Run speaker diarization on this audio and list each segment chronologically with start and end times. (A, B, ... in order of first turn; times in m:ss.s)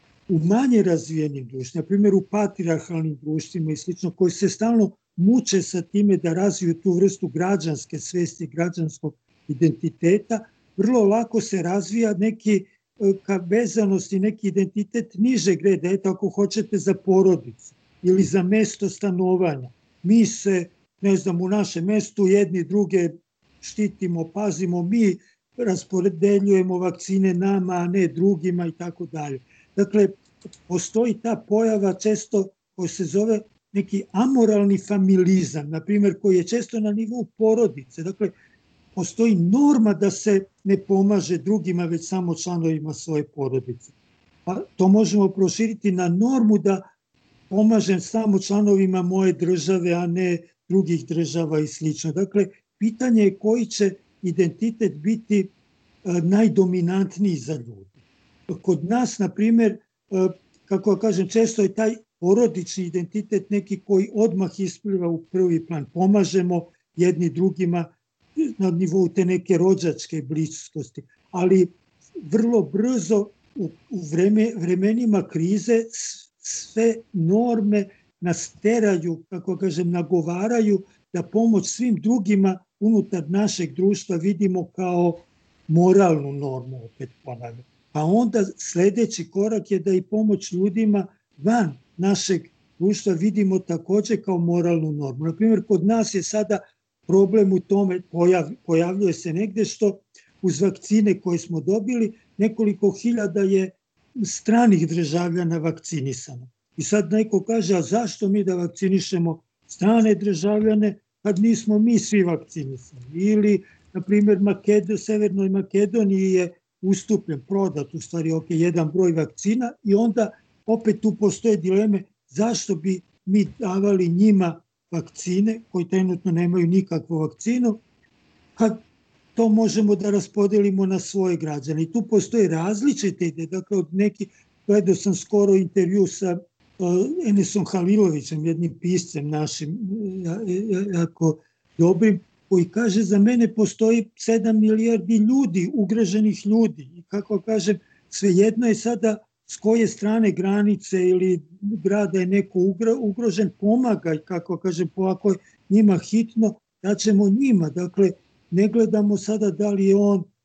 0:00.3-0:38.3 A
0:39.0-0:43.9 A
0:44.5-0:46.9 A
0:47.5-0:55.5 A
0:56.0-2:07.8 A
2:08.6-2:08.8 A
2:09.4-2:40.3 A